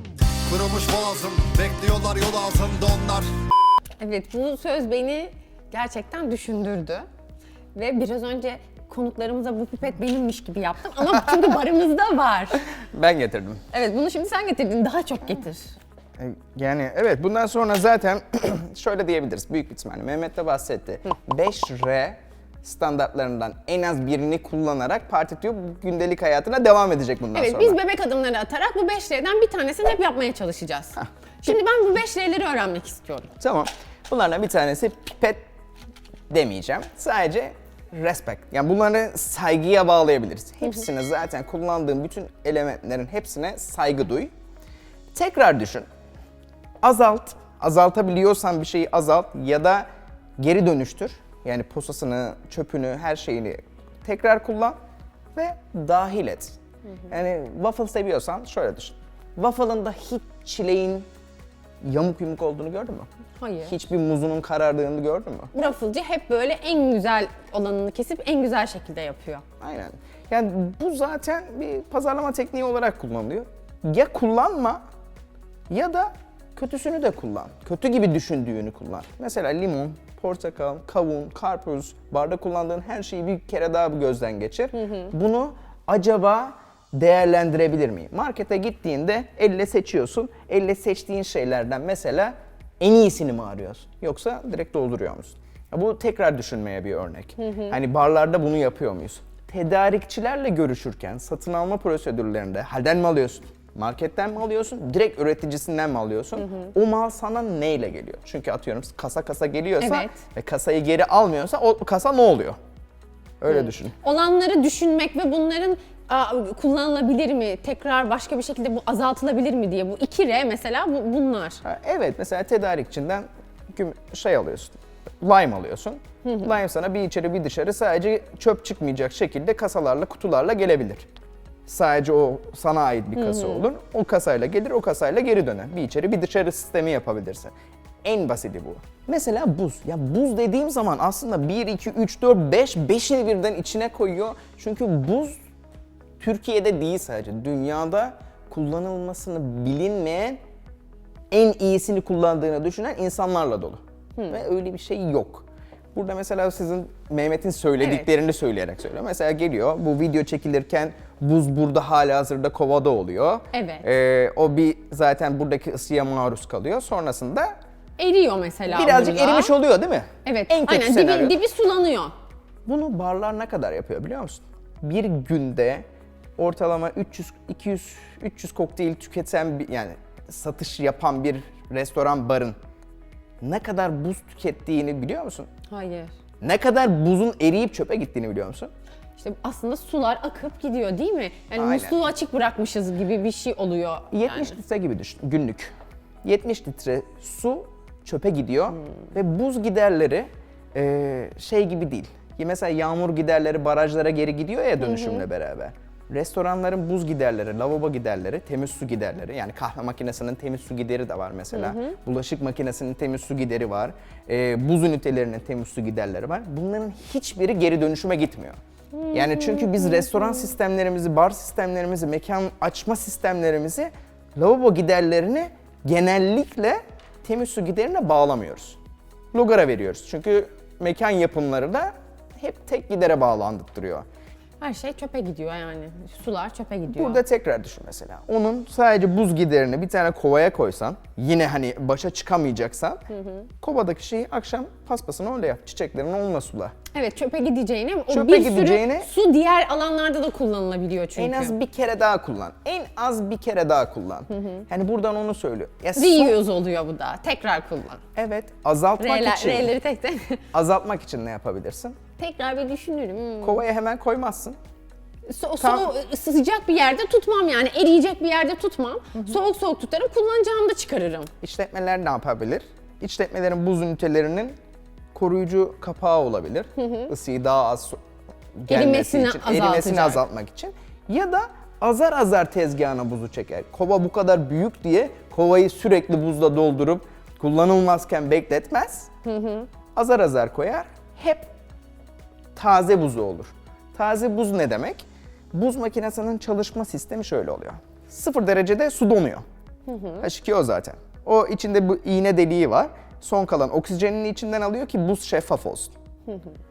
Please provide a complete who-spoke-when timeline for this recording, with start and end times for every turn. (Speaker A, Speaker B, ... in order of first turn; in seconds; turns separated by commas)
Speaker A: 0.5-3.3, Speaker B: 4.0-7.0, Speaker B: 7.7-12.7, Speaker C: 12.7-13.6, Speaker B: 13.7-15.7, Speaker C: 16.2-27.8, Speaker B: 27.3-33.3, Speaker C: 31.0-31.5, Speaker C: 33.4-35.4, Speaker C: 36.3-44.3, Speaker C: 45.1-45.9, Speaker C: 46.8-49.9, Speaker C: 50.4-54.8, Speaker C: 55.3-56.6, Speaker C: 57.1-61.1, Speaker C: 61.8-63.1, Speaker B: 63.4-63.7, Speaker C: 63.7-65.5, Speaker B: 65.5-69.4, Speaker C: 69.6-74.8, Speaker C: 75.7-112.6, Speaker B: 84.7-85.1, Speaker B: 97.4-97.8, Speaker B: 106.4-106.7, Speaker B: 109.8-110.2, Speaker C: 113.4-113.9, Speaker B: 113.5-121.6, Speaker C: 121.6-131.1, Speaker B: 126.2-126.5, Speaker C: 131.7-137.5, Speaker B: 133.2-133.7, Speaker C: 138.0-145.3, Speaker C: 146.2-150.4, Speaker C: 151.3-167.5, Speaker B: 154.2-154.4, Speaker B: 157.8-158.1, Speaker B: 163.5-163.8, Speaker B: 168.0-169.5, Speaker C: 168.7-171.4, Speaker B: 170.2-172.1, Speaker C: 172.7-175.8, Speaker C: 176.4-182.6, Speaker C: 183.4-185.5, Speaker B: 185.7-186.1, Speaker C: 186.4-188.7, Speaker B: 189.2-194.6, Speaker C: 191.6-192.0, Speaker C: 194.1-195.7, Speaker C: 196.2-218.6, Speaker B: 204.8-205.2, Speaker B: 211.5-211.9, Speaker B: 218.9-220.5, Speaker C: 219.1-228.8, Speaker C: 229.3-234.1, Speaker B: 234.6-237.2, Speaker C: 236.9-243.1, Speaker B: 243.1-243.5, Speaker C: 243.6-246.7, Speaker B: 246.9-251.6, Speaker C: 248.1-249.1, Speaker C: 251.2-256.4, Speaker B: 254.3-254.6, Speaker B: 255.9-258.0, Speaker C: 258.1-259.7, Speaker B: 259.0-260.4, Speaker C: 260.5-262.0, Speaker B: 262.2-263.6, Speaker C: 263.4-264.6, Speaker B: 265.3-271.3, Speaker C: 265.6-265.9, Speaker C: 271.4-274.6, Speaker C: 275.1-278.0, Speaker B: 276.8-277.1, Speaker C: 278.6-289.1, Speaker B: 278.7-280.2, Speaker B: 289.2-289.7, Speaker C: 289.9-291.5, Speaker C: 292.5-299.4, Speaker B: 299.9-300.3, Speaker C: 300.2-305.9, Speaker B: 306.3-306.5